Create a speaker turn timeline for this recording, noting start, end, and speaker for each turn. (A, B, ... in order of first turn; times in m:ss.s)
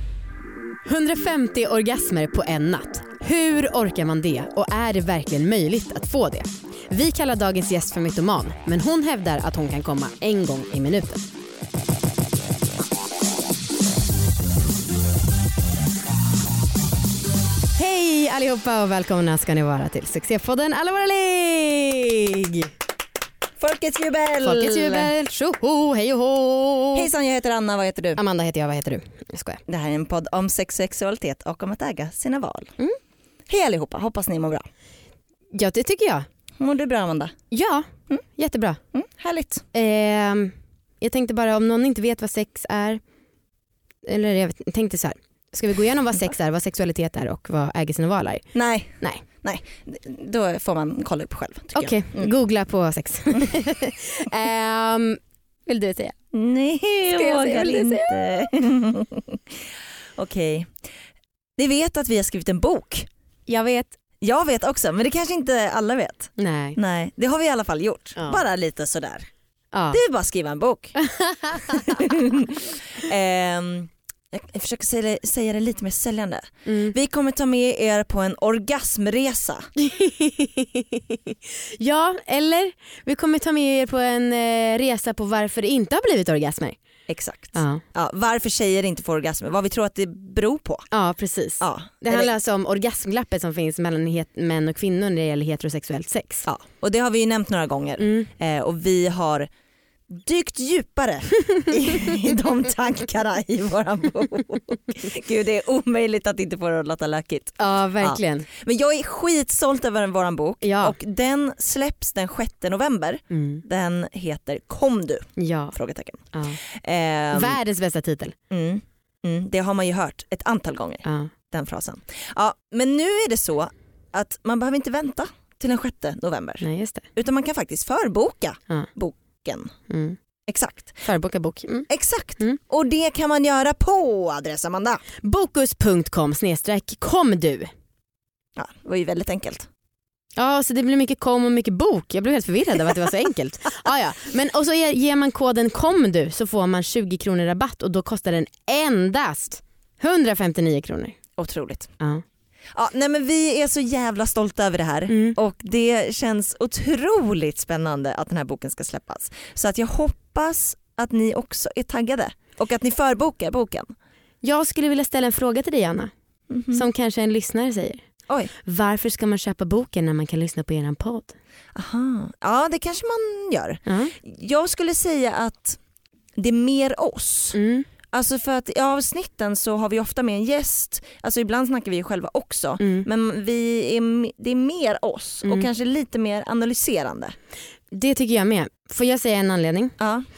0:00.8-0:11.2 A
0:17.8-0:22.7 A
0:23.6-0:25.1 B
0:24.4-0:27.1 A
0:26.9-0:28.2 B
0:28.2-0:29.6 A
0:29.7-0:32.8 B
0:33.5-0:34.7 B
0:35.5-0:36.3 A
0:36.6-0:37.3 B
0:37.5-0:38.8 A
0:38.9-0:39.6 B
0:39.7-0:43.0 A
0:44.0-0:48.4 A
0:48.5-0:52.3 B
0:51.8-0:56.2 A
0:56.3-1:00.8 B
0:57.1-0:58.2 A
1:01.6-1:03.1 B
1:03.5-1:03.9 A
1:04.2-1:09.3 B
1:06.4-1:06.8 A
1:09.7-1:10.0 A
1:09.9-1:11.0 B
1:11.0-1:11.7 A
1:11.6-1:19.7 B
1:16.7-1:17.0 A
1:19.8-1:26.8 A
1:27.1-1:30.9 B
1:27.5-1:27.8 A
1:30.9-1:36.5 A
1:31.6-1:32.3 B
1:36.5-1:39.5 B
1:38.0-1:38.3 A
1:40.1-1:57.6 B
1:47.6-1:48.5 A
1:50.6-1:51.0 A
1:53.3-1:53.6 A
1:55.4-1:55.8 A
1:56.3-1:56.6 A
1:57.3-1:58.4 A
1:58.5-2:09.7 B
2:01.0-2:01.3 A
2:06.6-2:07.1 A
2:09.9-2:10.2 A
2:10.5-2:11.0 B
2:11.0-2:12.6 A
2:11.9-2:15.0 B
2:15.2-2:17.7 A
2:18.6-2:19.7 B
2:20.4-2:31.2 A
2:31.4-2:31.9 B
2:32.7-2:43.9 B
2:35.1-2:35.4 A
2:44.4-2:46.1 A
2:46.5-2:46.9 B
2:46.7-2:48.0 A
2:48.6-2:51.4 A
2:51.8-2:55.8 B
2:53.9-2:54.2 A
2:56.4-2:57.6 B
2:57.5-2:57.9 A
2:58.1-3:07.4 B
3:02.8-3:03.1 A
3:07.9-3:10.0 A
3:10.0-3:10.3 B